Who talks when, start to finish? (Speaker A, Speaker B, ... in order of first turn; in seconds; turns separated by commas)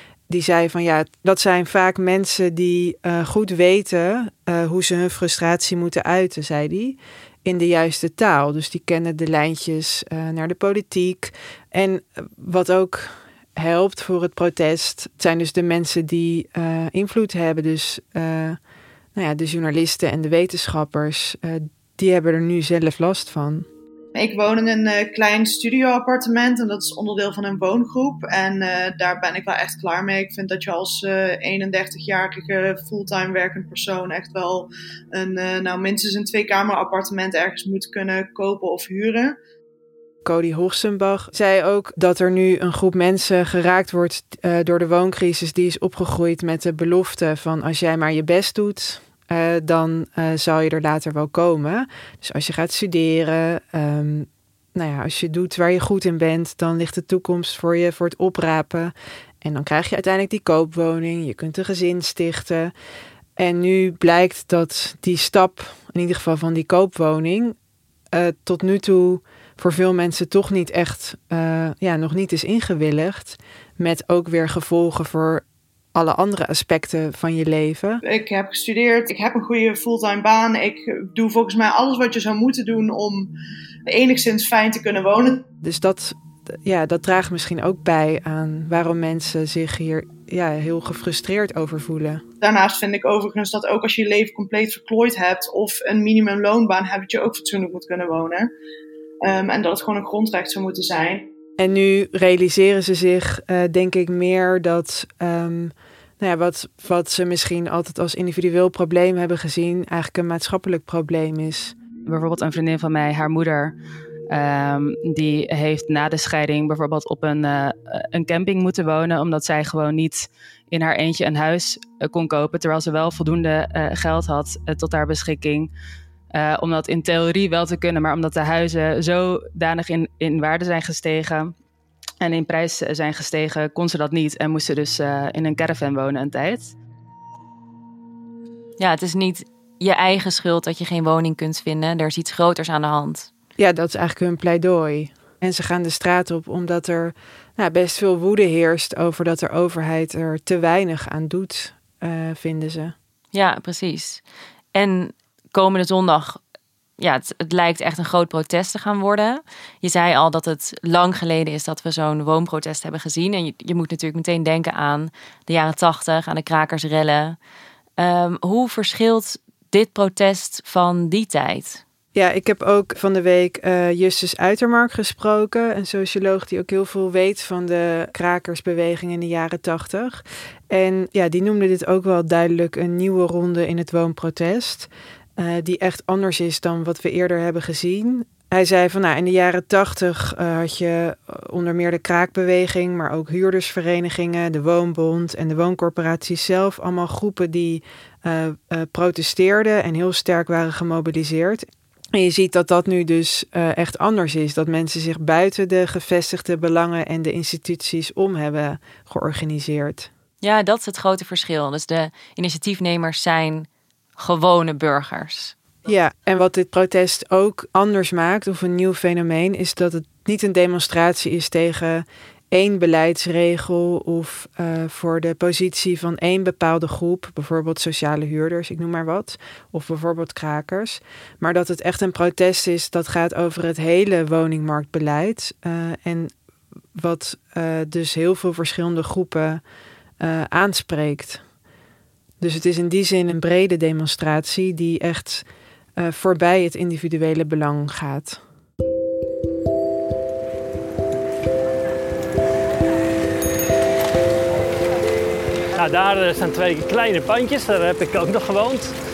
Speaker A: 0.3-18.6, Speaker A: 19.1-23.7, Speaker B: 24.1-39.4, Speaker A: 40.2-62.7, Speaker A: 63.4-67.5, Speaker A: 68.1-78.0, Speaker B: 78.1-83.3, Speaker B: 83.9-85.4, Speaker A: 85.6-92.2, Speaker B: 92.4-98.5, Speaker B: 99.2-101.3, Speaker A: 101.6-111.8, Speaker C: 112.1-113.7, Speaker C: 114.3-125.7, Speaker C: 126.3-131.5, Speaker C: 132.2-136.8, Speaker D: 138.8-143.3, Speaker A: 143.6-152.9, Speaker D: 153.3-154.2, Speaker D: 154.7-156.4, Speaker D: 157.0-167.4, Speaker D: 168.0-171.8, Speaker A: 172.2-210.1, Speaker D: 210.4-215.6, Speaker A: 215.9-236.3, Speaker A: 237.0-239.6, Speaker A: 240.2-241.4, Speaker A: 242.4-245.5, Speaker A: 246.0-248.4, Speaker E: 255.8-258.9